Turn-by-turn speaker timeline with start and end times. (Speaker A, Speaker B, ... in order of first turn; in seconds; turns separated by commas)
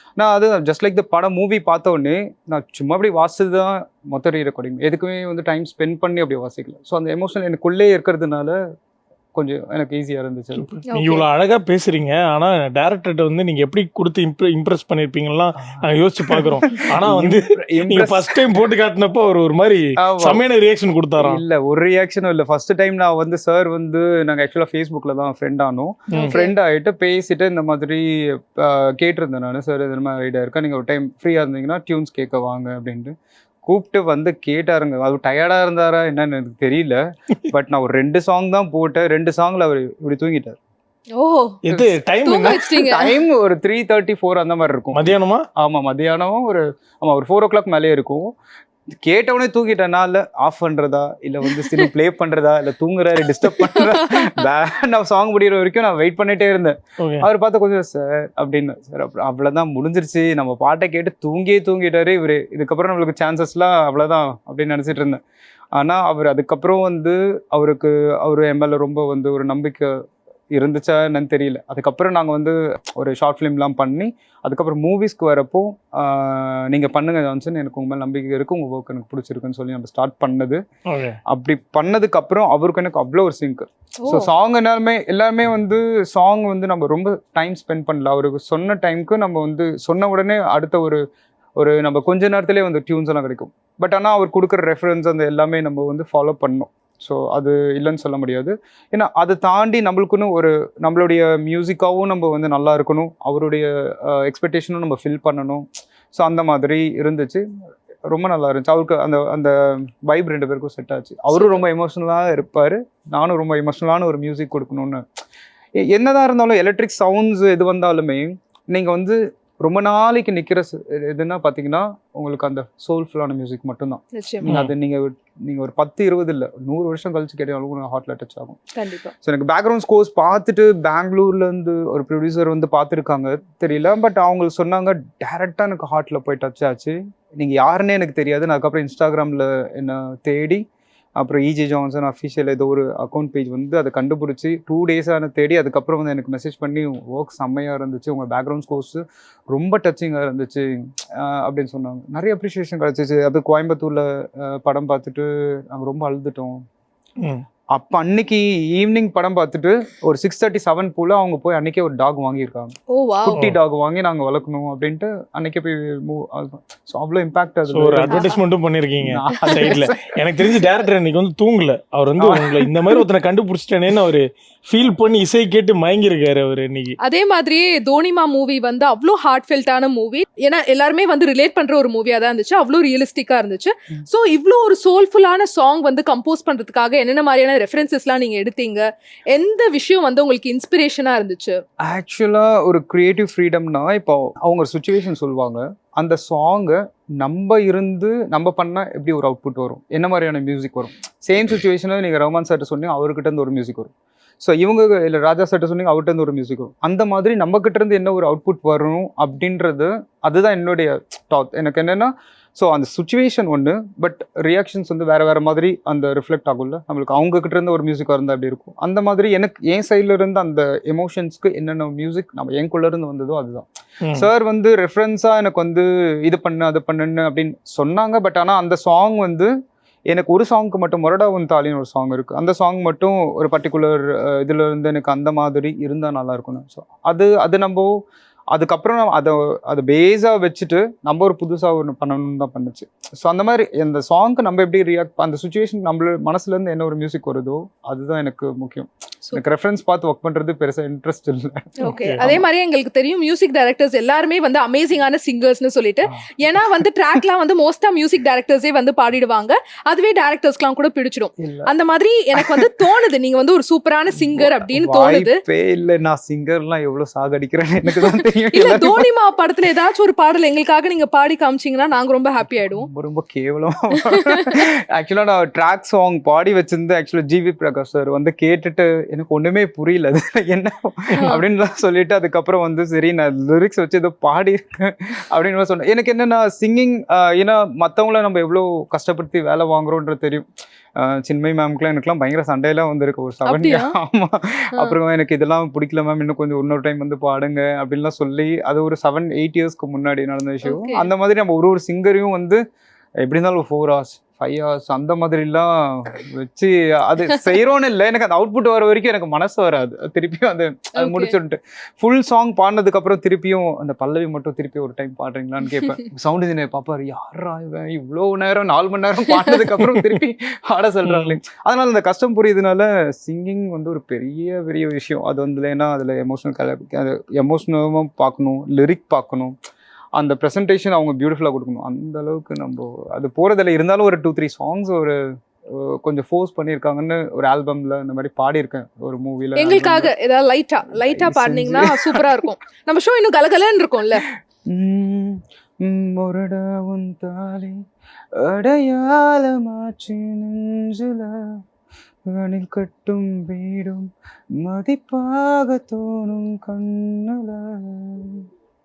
Speaker A: 0.2-8.6, Speaker A: 9.3-10.7, Speaker B: 10.6-21.4, Speaker C: 10.9-11.2, Speaker A: 15.6-18.6, Speaker A: 20.0-20.4, Speaker A: 21.2-40.6, Speaker C: 26.1-26.6, Speaker C: 41.2-43.1, Speaker B: 41.7-42.8, Speaker A: 42.5-48.3, Speaker B: 44.9-45.5, Speaker A: 49.0-65.2, Speaker C: 53.4-54.4, Speaker B: 57.0-57.3, Speaker A: 65.7-80.6, Speaker B: 80.9-81.2, Speaker A: 81.3-91.0, Speaker C: 84.0-84.3, Speaker A: 91.6-107.4, Speaker A: 108.1-115.0, Speaker C: 111.3-111.6, Speaker A: 115.8-128.6, Speaker C: 124.1-124.5, Speaker B: 124.5-124.7, Speaker C: 128.8-129.1, Speaker A: 129.2-140.6, Speaker A: 141.2-156.6, Speaker A: 157.7-168.3, Speaker C: 162.9-163.4, Speaker B: 163.3-163.6, Speaker B: 167.7-177.0, Speaker C: 168.1-168.4, Speaker A: 169.0-170.7, Speaker C: 169.3-169.7, Speaker A: 172.2-173.1, Speaker C: 177.0-191.6, Speaker A: 191.8-229.5, Speaker B: 224.0-224.3, Speaker A: 230.1-237.9, Speaker A: 238.5-252.4, Speaker C: 251.8-265.4, Speaker B: 251.9-252.2, Speaker A: 256.1-256.9, Speaker A: 261.4-261.7, Speaker A: 262.4-262.9, Speaker A: 264.2-269.1, Speaker C: 267.9-272.9, Speaker A: 272.7-302.6, Speaker C: 274.1-274.5, Speaker C: 293.4-293.9, Speaker C: 300.6-301.1, Speaker A: 303.2-329.6, Speaker C: 311.0-311.3, Speaker B: 321.1-321.4, Speaker A: 330.1-340.1, Speaker C: 339.6-344.2, Speaker A: 340.9-342.3, Speaker A: 344.7-351.6, Speaker A: 352.3-358.5